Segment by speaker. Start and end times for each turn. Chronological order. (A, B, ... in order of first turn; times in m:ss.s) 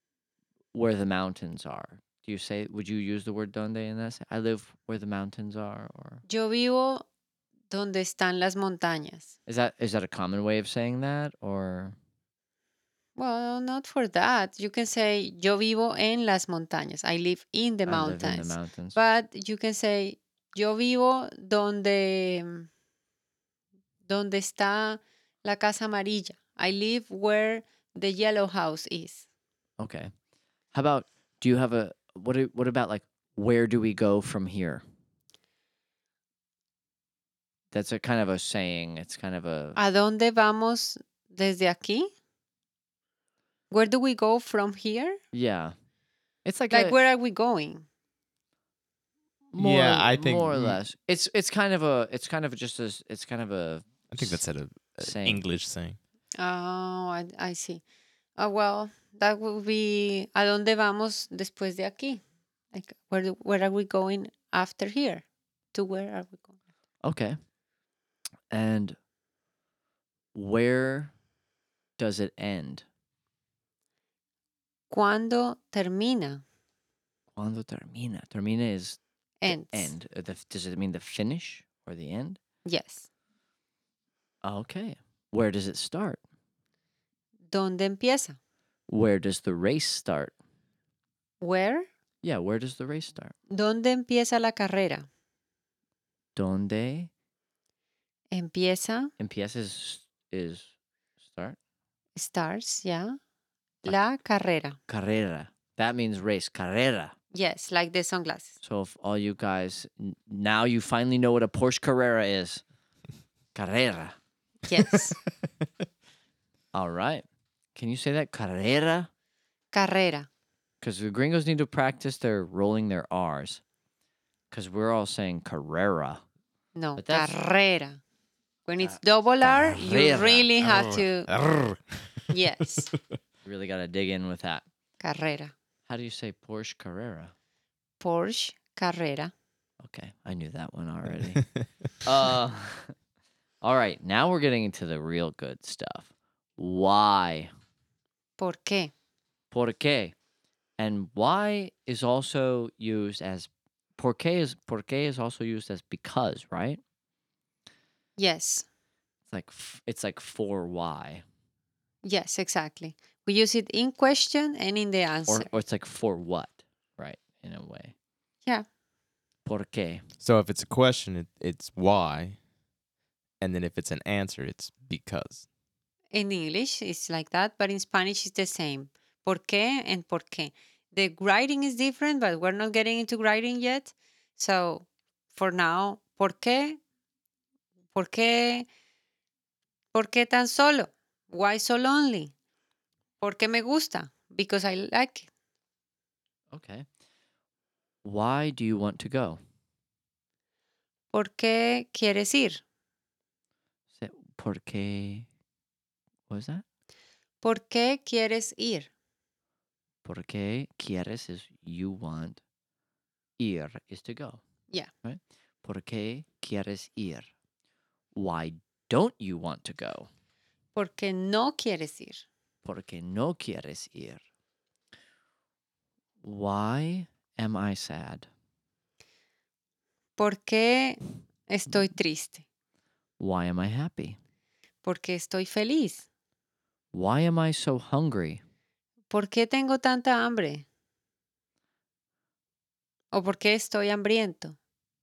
0:00.7-0:06.2 A
0:06.3-0:07.0 B
0:07.7-0:09.3 B
0:09.5-0:12.0 A
0:13.2-0:22.7 B
0:17.9-0:19.0 A
0:24.1-0:29.2 B
0:29.8-0:30.1 A
0:30.7-0:34.8 A
0:37.7-0:39.8 A
0:39.8-0:42.1 B
0:43.7-0:45.2 B
0:45.3-0:45.7 A
0:46.4-0:47.0 A
0:46.7-0:47.8 B
0:49.5-0:54.4 A
0:49.6-0:50.8 C
0:54.1-0:56.0 C
0:55.0-0:55.4 A
0:56.4-0:57.8 B
0:58.4-1:02.2 B
1:02.7-1:06.5 B
1:07.0-1:07.4 A
1:08.5-1:09.0 A
1:10.3-1:11.1 A
1:12.0-1:12.8 A
1:14.9-1:16.4 B
1:17.3-1:22.4 A
1:19.4-1:19.9 B
1:22.6-1:23.1 B
1:24.4-1:26.2 A
1:27.5-1:28.4 B
1:28.9-1:30.3 A
1:31.4-1:31.9 B
1:32.2-1:33.3 A
1:33.5-1:35.1 B
1:36.4-1:37.1 A
1:38.3-1:39.1 B
1:39.2-1:40.7 A
1:41.2-1:41.6 A
1:42.2-1:43.2 B
1:43.8-1:44.8 B
1:44.9-1:47.2 A
1:47.3-1:48.5 B
1:48.6-1:52.6 A
1:53.6-1:54.2 A
1:54.7-1:55.2 B
1:56.7-1:57.2 A
1:57.8-1:59.1 A
1:59.7-2:00.3 B
2:00.8-2:03.6 A
2:04.5-2:06.2 A
2:06.8-2:08.0 B
2:07.0-2:07.3 A
2:08.7-2:11.3 B
2:08.8-2:10.5 A
2:10.6-2:12.3 C
2:12.3-2:12.9 B
2:13.5-2:14.6 A
2:15.0-2:15.5 B
2:15.9-2:17.3 A
2:18.0-2:19.3 B
2:19.8-2:21.4 A
2:22.0-2:22.9 A
2:23.6-2:27.5 A
2:28.4-2:28.9 B
2:29.5-2:30.2 A
2:30.8-2:36.8 A
2:38.2-2:38.6 B
2:39.3-2:41.2 A
2:42.0-2:45.5 B
2:45.3-2:47.9 A
2:49.5-2:50.0 A
2:50.2-2:52.4 C
2:53.4-2:55.4 C
2:56.1-3:06.8 B
3:07.9-3:08.7 B
3:09.9-3:12.3 B
3:13.2-3:15.3 B
3:16.5-3:16.9 A
3:18.0-3:19.4 A
3:21.1-3:22.6 B
3:24.0-3:25.3 A
3:26.3-3:26.6 A
3:27.4-3:28.9 B
3:30.0-3:32.4 A
3:33.4-3:34.4 A
3:35.0-3:37.3 A
3:38.2-3:40.1 A
3:40.8-3:42.3 B
3:42.6-3:44.2 A
3:46.2-3:48.3 A
3:50.2-3:52.4 B
3:53.2-3:54.2 A
3:54.8-3:56.0 B
3:56.9-3:58.4 A
3:59.1-4:00.6 B
4:03.1-4:04.6 B